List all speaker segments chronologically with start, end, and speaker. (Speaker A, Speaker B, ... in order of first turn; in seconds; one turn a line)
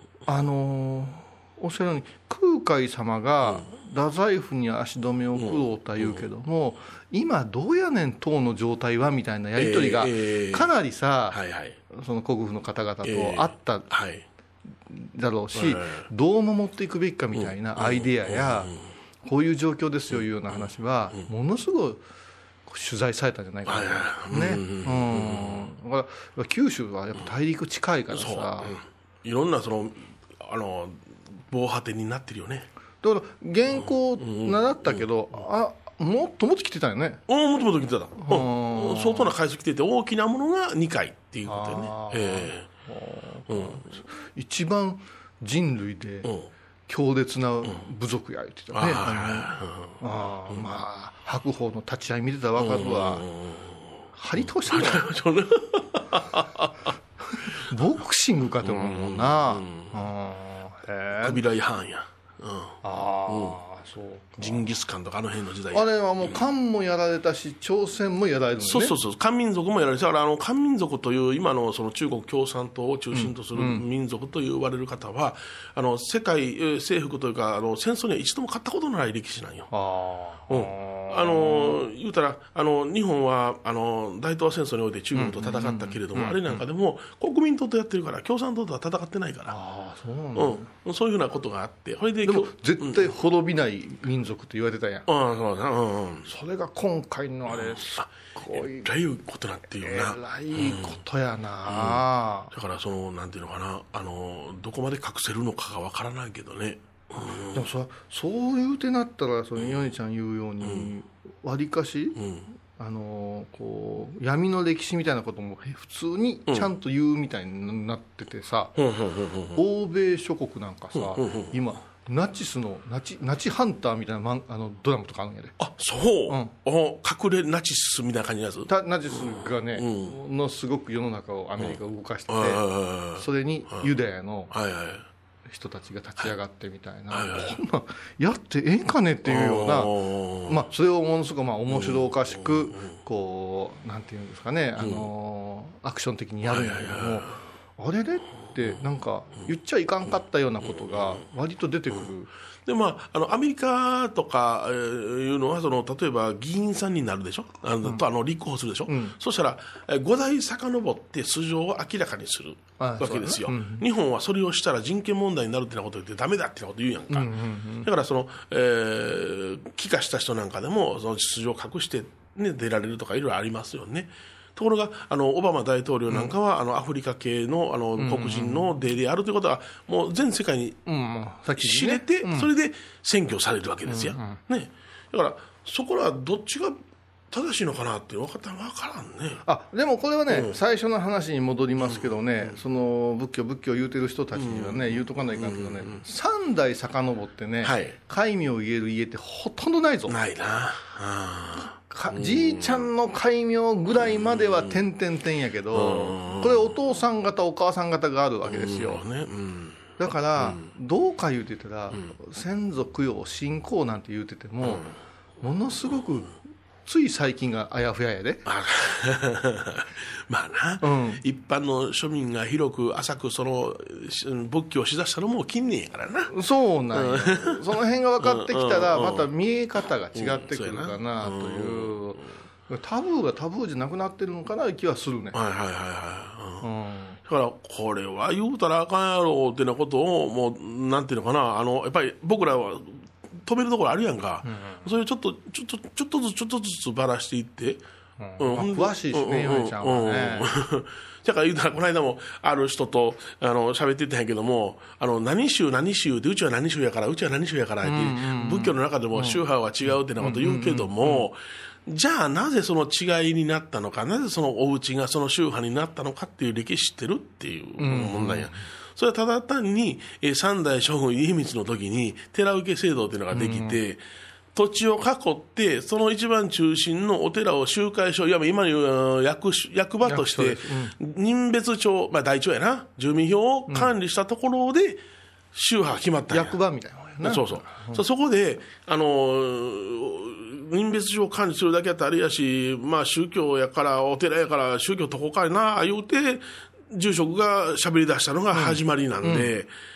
Speaker A: 0.3-13.9
Speaker B: 5.3-6.2
Speaker B: 9.6-10.7
Speaker B: 11.3-11.8
Speaker B: 13.0-14.2
Speaker A: 14.9-18.7
Speaker B: 15.5-16.1
Speaker B: 17.3-18.8
Speaker A: 19.2-22.0
Speaker B: 20.1-21.2
Speaker A: 22.7-28.8
Speaker B: 23.6-25.7
Speaker B: 28.1-32.7
Speaker A: 33.0-37.2
Speaker B: 33.7-35.0
Speaker B: 37.3-42.7
Speaker A: 38.2-39.3
Speaker A: 41.5-46.3
Speaker B: 43.5-43.9
Speaker B: 46.2-46.5
Speaker A: 46.9-53.2
Speaker B: 48.7-50.6
Speaker B: 52.6-56.9
Speaker A: 54.1-55.1
Speaker A: 57.3-61.4
Speaker B: 58.6-60.0
Speaker B: 61.2-63.6
Speaker A: 62.8-64.7
Speaker B: 64.4-66.3
Speaker A: 65.7-69.0
Speaker B: 68.6-79.7
Speaker A: 73.1-73.8
Speaker A: 79.7-81.8
Speaker B: 80.5-89.5
Speaker A: 85.1-86.6
Speaker A: 89.5-90.7
Speaker B: 90.3-93.1
Speaker A: 92.2-95.1
Speaker B: 95.1-96.3
Speaker A: 96.2-98.9
Speaker B: 97.5-101.0
Speaker A: 99.8-102.5
Speaker B: 101.7-107.7
Speaker A: 107.5-118.8
Speaker B: 109.6-109.8
Speaker B: 110.6-110.9
Speaker B: 112.2-112.5
Speaker B: 118.8-119.6
Speaker A: 119.5-125.6
Speaker B: 120.9-121.6
Speaker B: 125.6-130.2
Speaker A: 126.3-126.5
Speaker A: 128.7-134.5
Speaker B: 132.3-133.9
Speaker B: 134.5-135.1
Speaker A: 135.5-152.3
Speaker B: 137.1-137.6
Speaker B: 139.2-140.6
Speaker B: 141.7-142.9
Speaker B: 144.8-145.1
Speaker B: 146.4-147.4
Speaker B: 150.6-151.2
Speaker B: 152.6-180.8
Speaker A: 158.9-159.2
Speaker A: 162.8-163.8
Speaker A: 167.1-167.9
Speaker A: 178.0-178.7
Speaker A: 180.8-182.5
Speaker B: 181.6-186.8
Speaker A: 183.9-184.4
Speaker B: 187.3-189.4
Speaker A: 189.4-200.2
Speaker B: 190.3-190.6
Speaker B: 191.8-192.6
Speaker B: 194.3-196.0
Speaker B: 197.6-198.0
Speaker B: 200.1-202.9
Speaker A: 201.8-209.0
Speaker B: 203.9-204.8
Speaker B: 205.7-206.7
Speaker B: 208.4-210.7
Speaker A: 210.0-214.8
Speaker B: 214.6-214.9
Speaker A: 215.4-218.4
Speaker B: 218.4-226.3
Speaker A: 220.8-221.2
Speaker A: 226.3-235.4
Speaker B: 226.9-227.6
Speaker B: 228.2-229.3
Speaker B: 230.1-232.3
Speaker B: 235.3-236.7
Speaker A: 236.6-237.2
Speaker B: 237.2-247.8
Speaker A: 244.4-244.9
Speaker A: 248.2-250.5
Speaker B: 248.4-274.0
Speaker A: 257.8-261.2
Speaker A: 267.8-268.7
Speaker A: 273.3-273.8
Speaker B: 274.5-286.6
Speaker A: 280.0-280.9
Speaker A: 286.3-288.0
Speaker B: 287.2-299.7
Speaker A: 298.5-299.5